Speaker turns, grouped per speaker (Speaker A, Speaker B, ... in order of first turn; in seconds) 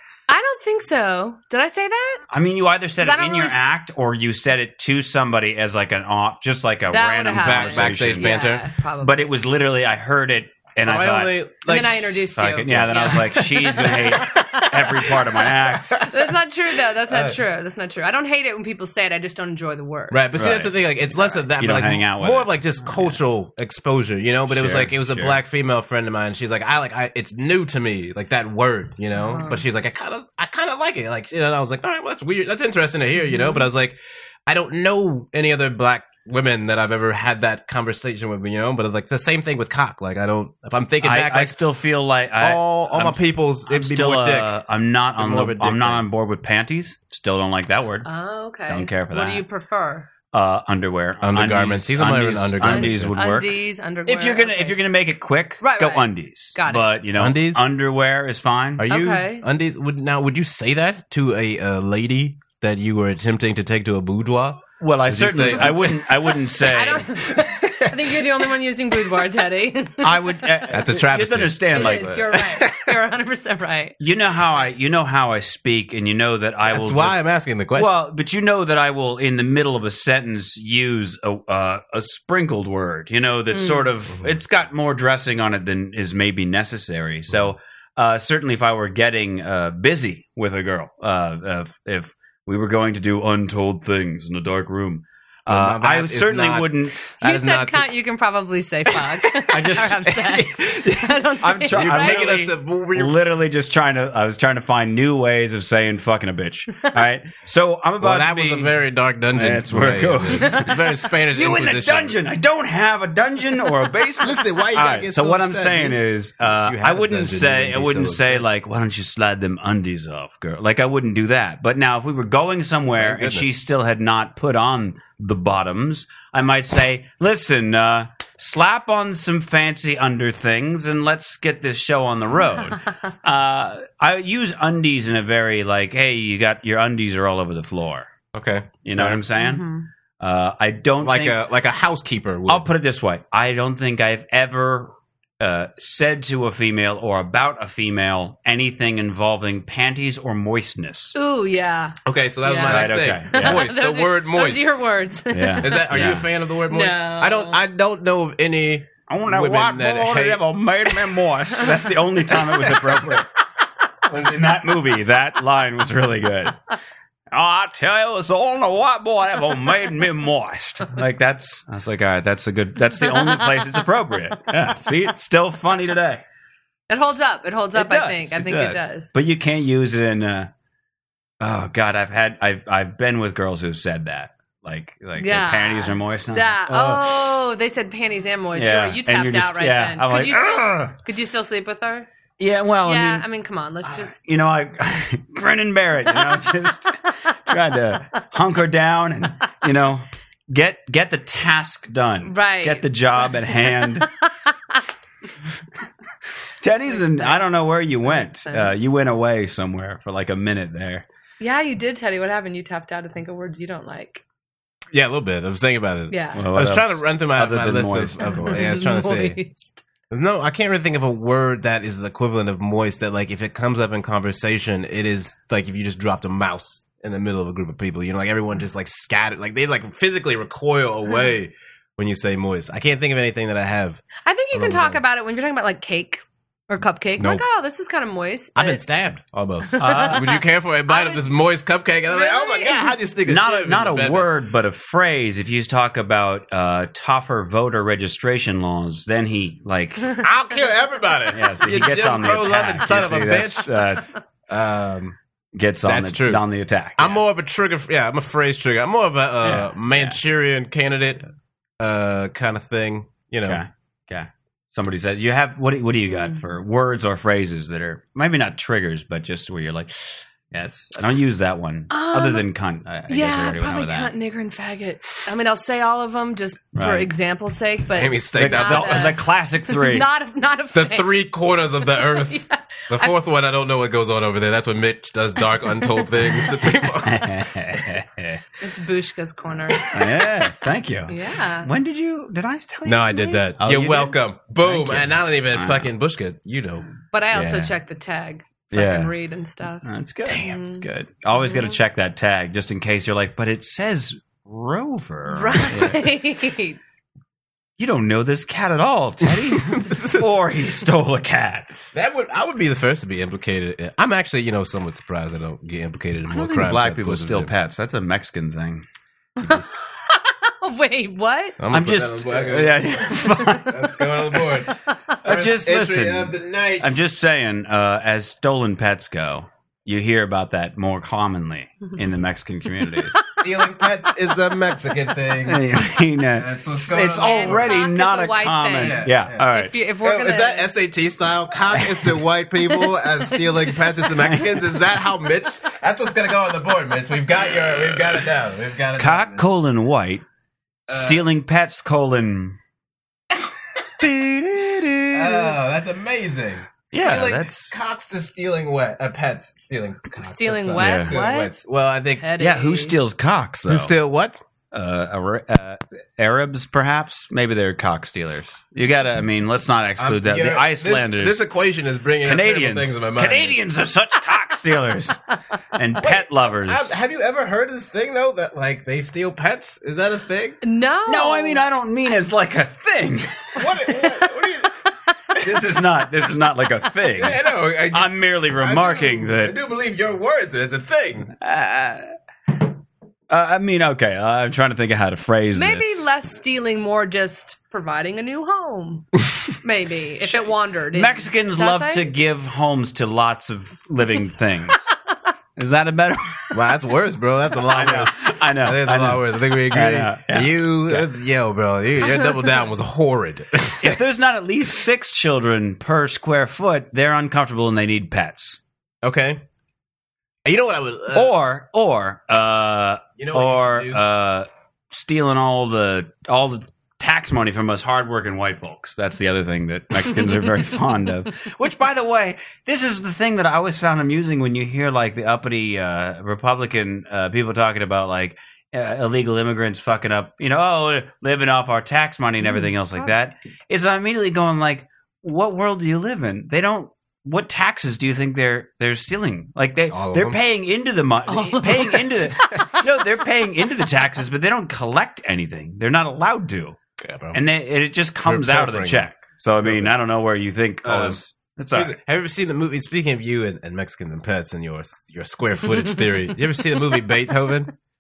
Speaker A: 0.3-2.2, 3.0-3.6, 6.9-9.3, 11.7-14.7, 16.1-20.3, 29.2-29.6, 33.2-33.7, 48.0-50.1, 52.7-54.8, 55.6-56.9, 58.9-59.5, 66.6-70.7, 71.7-74.0, 83.5-83.9, 97.2-102.2, 110.4-110.7, 139.4-139.9, 151.2-157.6, 176.9-179.1, 185.2-192.1, 192.8-194.2, 202.3-204.1, 206.9-207.4, 208.1-208.7, 211.4-214.2, 216.1-216.4, 218.3-219.8, 234.2-238.9, 239.7-241.3, 242.1-242.9, 266.1-266.4, 271.9-272.4, 273.1-281.2, 281.9-283.1, 288.6-289.9, 291.1-291.7, 297.1-299.9, 300.4-300.8, 301.4-301.8, 305.3-306.8, 319.4-321.6, 337.2-340.7, 342.7-344.3, 360.2-361.5, 362.2-363.0, 380.6-381.6, 395.5-399.1, 399.6-402.1, 451.3-452.8
Speaker B: 2.3-8.4, 9.0-11.4, 12.3-16.1, 20.4-20.8, 21.6-23.2, 24.5-25.4, 41.0-48.1, 48.7-49.4, 50.3-58.9, 64.8-67.1, 70.0-72.2, 74.0-77.2, 77.8-97.2, 99.5-100.2, 101.4-108.8, 109.3-110.8, 111.3-138.1, 138.8-139.7, 140.2-141.4, 142.5-151.2, 152.7-153.7, 155.3-156.3, 159.1-163.3, 164.1-166.6, 167.3-176.2, 177.7-180.5, 181.4-187.2, 188.6-191.0, 192.4-193.3, 193.8-196.9, 197.5-204.1, 206.6-211.1, 216.4-218.7, 239.8-240.3, 243.3-250.3, 251.3-254.1, 255.5-257.2, 259.4-260.2, 263.4-269.9, 270.5-274.1, 276.8-277.1, 278.4-280.1, 287.0-288.4, 289.9-295.9, 297.3-297.7, 298.7-299.1, 299.8-306.1, 307.8-311.7, 316.3-318.9, 321.7-323.8, 325.2-333.2, 335.5-339.8, 349.0-350.2, 350.9-352.6, 354.0-355.6, 356.9-357.7, 360.8-361.1, 362.4-363.9, 364.7-371.4, 372.2-375.2, 375.8-377.0, 381.1-383.6, 385.4-389.6, 391.4-392.1, 393.3-396.0, 400.3-404.8, 405.6-406.6, 407.7-411.1, 413.8-418.6, 421.1-456.8, 457.3-462.0
Speaker C: 7.4-8.6, 10.8-12.1, 12.7-13.4, 17.1-17.4, 20.1-41.6, 42.4-44.6, 45.2-46.0, 51.2-53.2, 57.2-57.7, 58.8-66.1, 67.4-68.0, 70.7-72.9, 76.7-77.9, 95.5-97.9, 100.2-101.1, 101.7-103.2, 108.0-112.2, 114.2-116.0, 116.6-118.5, 123.0-123.5, 138.3-139.2, 141.0-142.7, 152.1-154.8, 155.6-160.4, 214.9-219.4, 220.1-235.0, 237.2-237.4, 238.6-244.3, 250.2-253.7, 254.5-255.2, 255.8-256.4, 257.0-261.2, 261.8-263.6, 277.9-279.2, 280.7-287.4, 289.7-290.5, 292.9-296.9, 309.2-310.4, 311.9-317.5, 319.4-319.8, 321.6-327.0, 333.3-335.6, 336.4-337.9, 338.8-339.5, 340.0-349.5, 350.9-351.2, 355.1-362.3, 363.7-364.4, 370.0-373.6, 376.0-380.6, 383.6-384.7, 387.2-391.3, 406.5-414.0, 419.0-419.4, 420.4-421.3, 423.2-424.0, 449.9-450.4, 457.0-457.4, 458.2-459.1, 459.6-459.9, 460.8-461.2, 461.7-467.7